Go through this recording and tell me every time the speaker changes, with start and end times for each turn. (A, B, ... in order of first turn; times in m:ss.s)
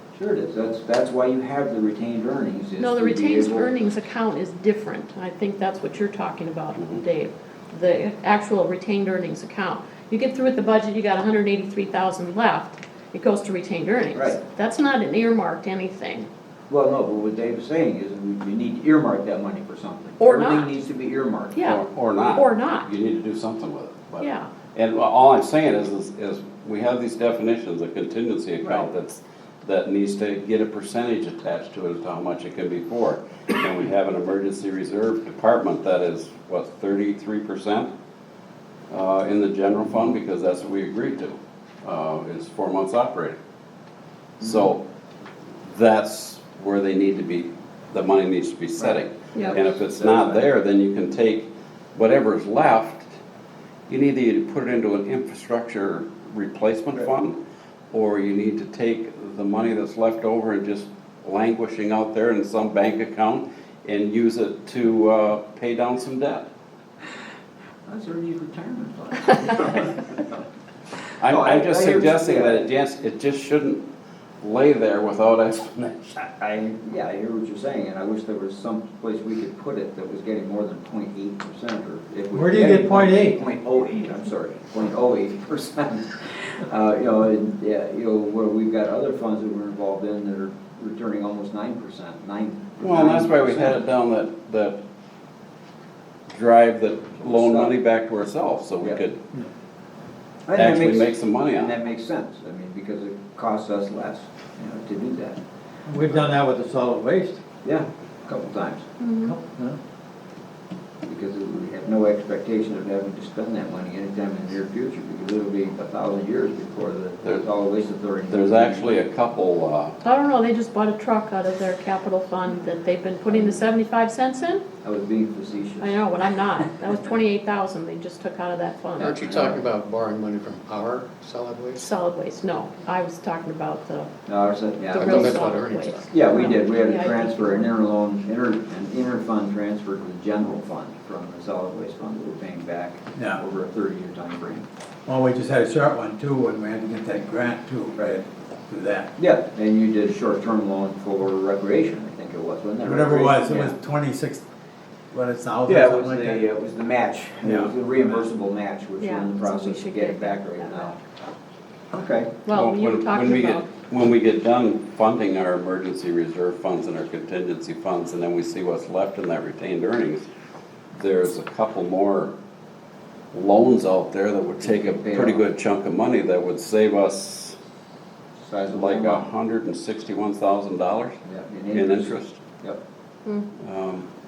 0:00.1-0:03.7 A
0:02.8-0:16.3 B
0:14.1-0:14.4 A
0:16.7-0:21.6 A
0:20.2-0:20.7 B
0:21.5-0:21.8 B
0:21.6-0:37.9 C
0:22.3-0:22.9 B
0:24.2-0:24.5 B
0:28.6-0:28.9 A
0:38.9-0:43.4 C
0:44.4-0:44.7 A
0:44.4-0:44.8 C
0:45.6-0:53.1 C
0:48.8-0:50.5 A
0:49.3-0:49.6 B
0:53.9-0:57.4 C
0:57.9-1:06.5 C
1:07.9-1:10.4 A
1:11.2-1:13.8 C
1:11.2-1:12.6 A
1:14.4-1:16.2 C
1:16.2-1:33.8 A
1:22.3-1:23.4 D
1:32.8-1:34.8 C
1:36.3-1:39.2 C
1:37.2-1:37.8 A
1:40.5-1:45.4 A
1:40.6-1:41.7 C
1:45.9-1:47.4 D
1:47.6-1:48.9 A
1:49.0-1:49.4 B
1:49.2-1:49.8 D
1:51.0-1:59.1 A
1:58.3-2:00.0 C
2:00.0-2:04.6 B
2:03.3-2:03.6 A
2:04.8-2:06.0 A
2:05.8-2:09.2 B
2:09.0-2:09.6 A
2:09.0-2:11.8 E
2:11.8-2:14.1 B
2:14.3-2:15.5 A
2:14.9-2:16.1 E
2:14.9-2:17.7 B
2:16.1-2:24.7 A
2:23.2-2:23.4 D
2:25.1-2:29.2 D
2:29.2-2:33.8 A
2:32.8-2:34.4 D
2:35.1-2:36.4 D
2:35.7-2:41.0 A
2:37.4-2:37.8 D
2:39.0-2:41.0 B
2:41.9-2:42.4 A
2:42.5-2:43.7 B
2:42.5-2:50.2 C
2:51.0-2:52.3 C
2:53.3-2:57.6 C
2:54.6-2:55.4 A
2:58.4-2:59.3 A
2:58.7-3:01.2 C
3:01.2-3:02.8 A
3:01.7-3:02.4 C
3:03.6-3:04.1 C